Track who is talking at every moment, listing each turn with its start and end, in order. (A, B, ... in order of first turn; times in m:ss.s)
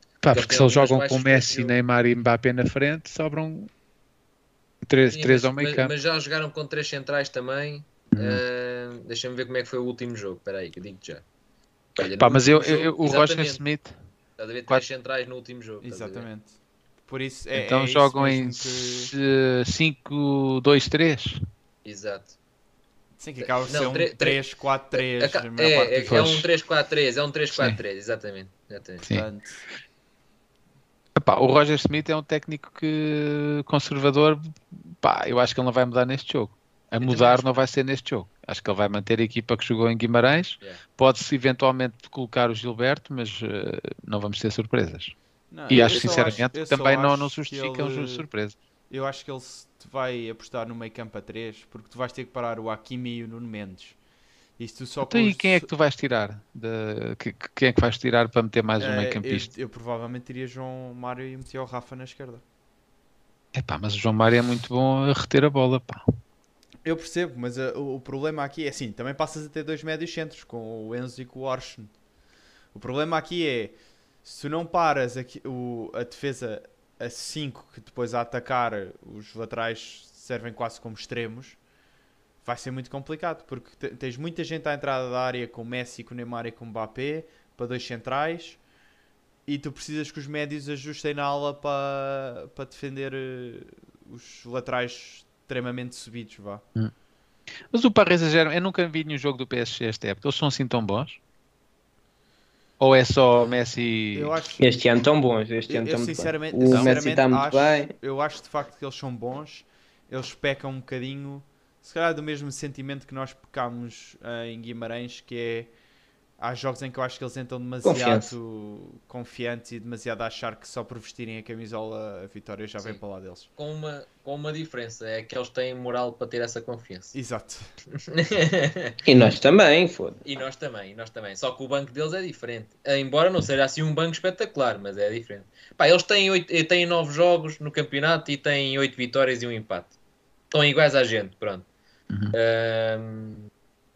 0:00.2-0:03.7 A
0:00.3-0:01.7 B
0:04.9-0:05.9 A
0:05.1-0:11.2 B
0:08.1-0:08.4 A
0:12.0-0:13.6 B
0:12.2-0:13.9 A
0:14.4-0:16.3 B
0:15.8-0:19.1 C
0:17.5-0:21.4 A
0:21.8-0:22.3 B
0:23.2-0:26.3 C
0:23.4-0:24.4 B
0:24.9-0:29.0 B
0:26.1-0:26.5 A
0:27.5-0:27.8 A
0:29.0-0:29.6 C
0:31.2-0:45.1 A
0:37.0-0:37.6 B
0:45.5-0:48.3 C
0:45.7-0:48.6 A
0:45.7-0:46.4 B
0:48.9-0:54.0 C
0:54.6-0:55.7 C
0:55.1-0:59.5 A
0:58.8-1:02.4 C
1:03.5-1:06.0 A
1:06.8-1:11.9 C
1:12.7-1:21.6 C
1:22.4-1:28.6 C
1:29.4-1:36.6 C
1:37.7-1:41.2 A
1:42.8-1:44.3 A
1:44.1-1:44.6 C
1:44.6-1:47.9 D
1:45.7-1:55.7 C
1:56.4-2:03.5 C
1:57.8-1:58.3 D
2:03.6-2:07.1 B
2:07.1-2:07.6 C
2:08.0-2:09.0 B
2:09.0-2:10.2 D
2:10.2-2:19.9 B
2:20.5-2:21.7 B
2:22.3-2:23.5 B